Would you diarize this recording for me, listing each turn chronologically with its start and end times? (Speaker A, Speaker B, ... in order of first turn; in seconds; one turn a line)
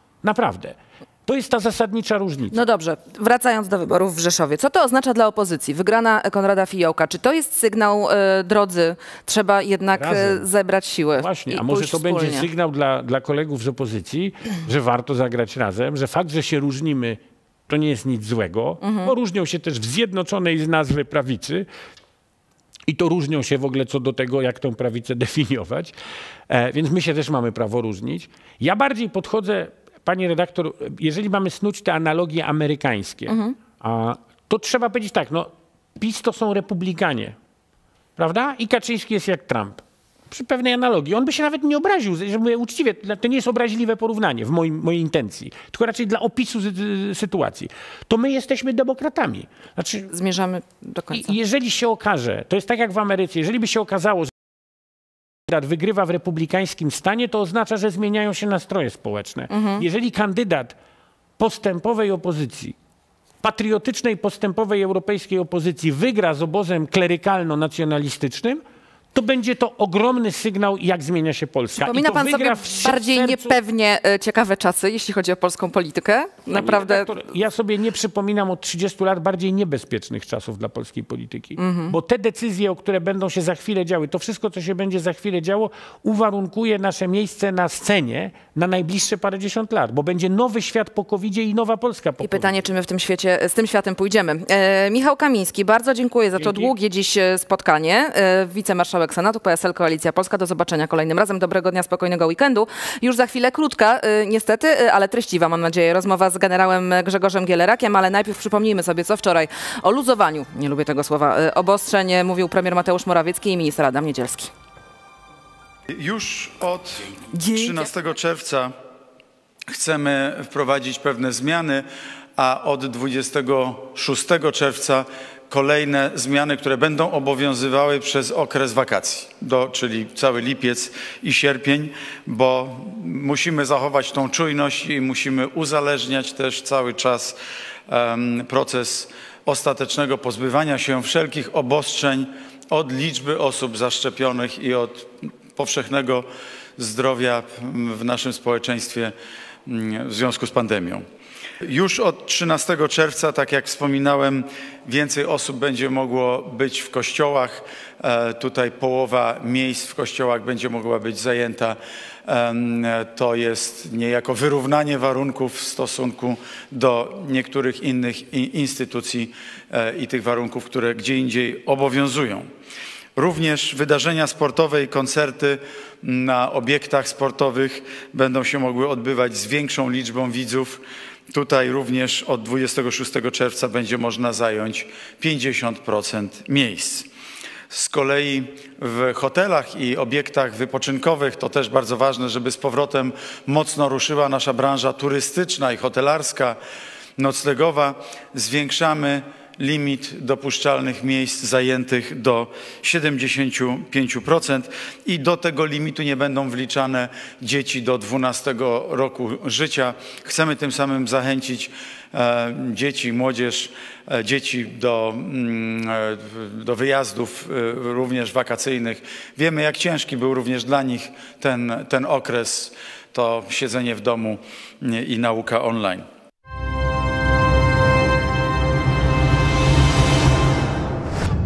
Speaker A: 0.2-2.6
Speaker B: 2.5-12.5
Speaker A: 9.9-10.5
Speaker A: 11.1-21.6
Speaker B: 18.8-19.1
Speaker A: 22.9-25.9
Speaker A: 26.5-37.4
Speaker B: 33.3-33.5
Speaker A: 38.2-50.1
Speaker B: 50.1-51.3
Speaker A: 51.1-54.3
Speaker A: 55.5-60.7
Speaker B: 59.5-59.8
Speaker A: 61.4-62.7
Speaker A: 63.4-68.6
Speaker A: 69.1-73.5
Speaker B: 71.8-77.1
Speaker A: 76.5-92.6
Speaker B: 81.6-81.9
Speaker B: 92.2-114.5
Speaker A: 96.3-96.7
Speaker C: 115.9-118.7
Speaker B: 117.3-117.9
Speaker C: 119.7-137.4
Speaker C: 137.9-149.1
Speaker C: 149.7-151.1
Speaker C: 151.6-172.5
Speaker C: 173.2-187.1
Speaker C: 187.7-196.6
Speaker C: 197.2-226.1